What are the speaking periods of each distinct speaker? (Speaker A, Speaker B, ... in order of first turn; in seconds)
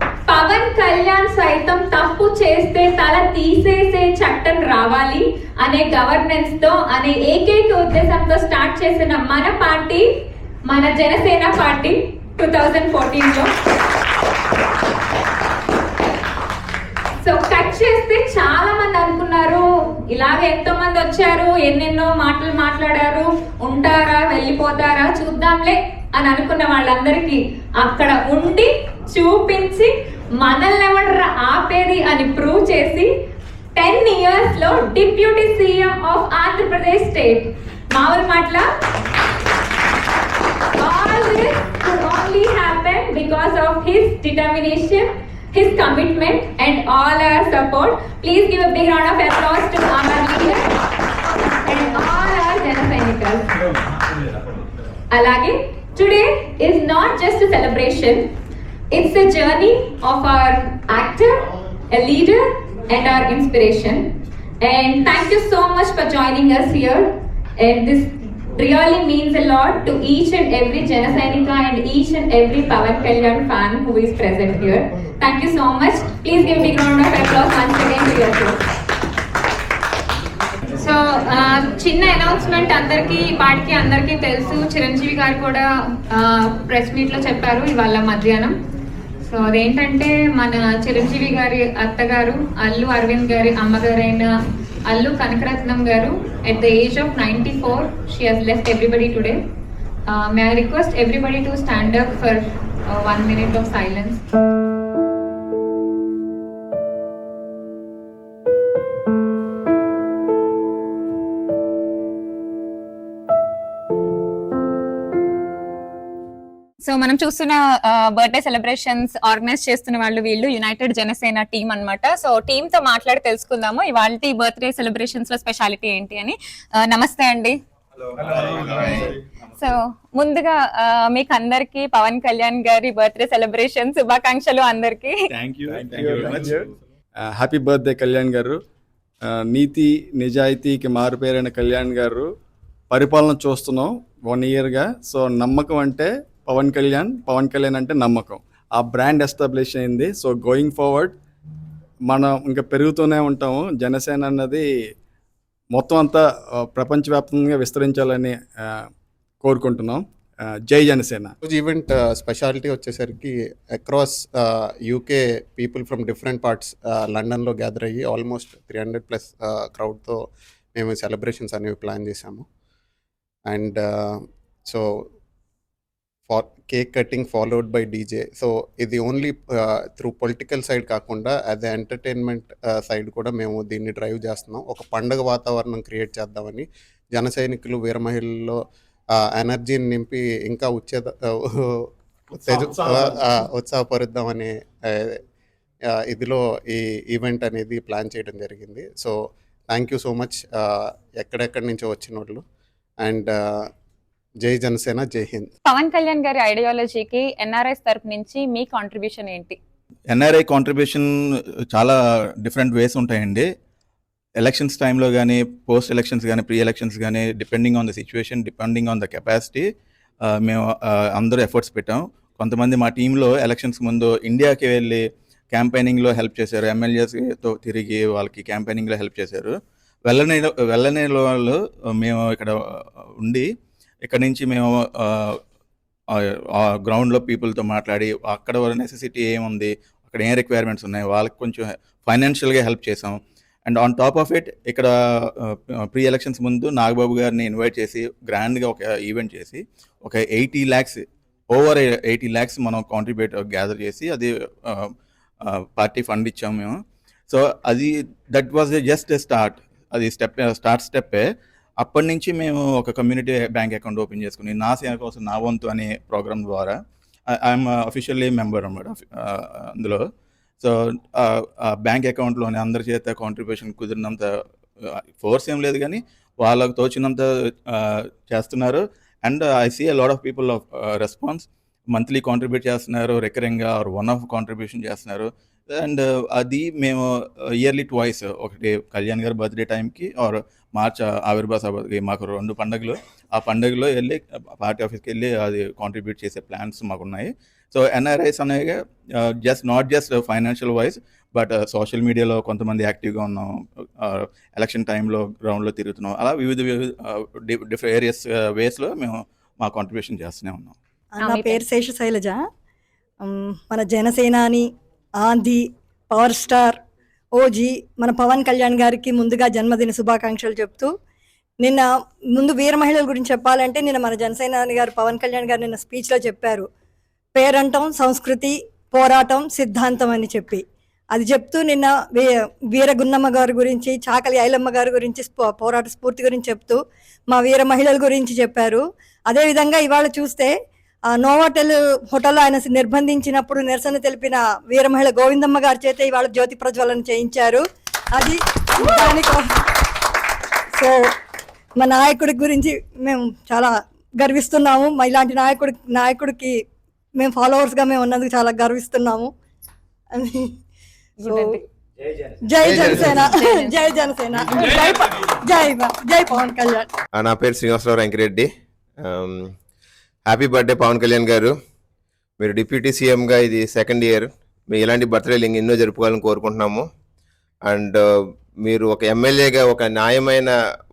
Speaker A: 0.3-10.0, 10.7-13.5, 17.2-33.1, 33.8-38.6, 40.8-50.7, 51.6-53.5, 55.1-58.2, 58.9-64.1, 64.6-78.6, 80.8-88.5, 89.3-94.3, 94.8-99.4, 100.1-104.2, 116.8-127.6, 129.6-135.3, 205.7-209.6, 311.2-311.6, 361.2-361.6, 362.6-364.0
Speaker B: 128.4-128.9, 135.3-136.7, 210.1-211.1, 211.7-213.5, 214.4-219.7, 220.3-229.5, 230.1-233.5, 234.0-235.4, 236.2-254.9, 255.4-256.8, 257.3-261.3, 261.8-266.8, 267.4-270.0, 270.6-310.7
Speaker C: 135.9-136.6, 137.3-138.6, 139.5-142.3, 142.9-151.2, 152.1-154.7, 155.7-158.8, 159.4-160.0, 160.7-161.3
Speaker D: 161.4-170.2, 170.7-172.4, 173.5-174.8, 176.3-188.6, 189.3-191.5, 192.3-195.2, 196.0-199.2, 199.7-202.4, 203.0-203.4, 204.4-205.5
Speaker E: 311.1-312.4, 313.2-314.6, 315.2-316.8, 317.3-320.9, 321.6-326.6, 327.3-340.5, 341.1-347.6, 348.1-349.4, 350.8-351.1, 351.8-356.6, 357.2-359.3, 360.1-360.5, 361.2-361.6, 362.5-366.9
Speaker F: 362.7-363.0, 367.1-368.5, 369.0-369.5, 370.3-371.5, 372.4-376.8, 377.7-378.0, 378.6-380.5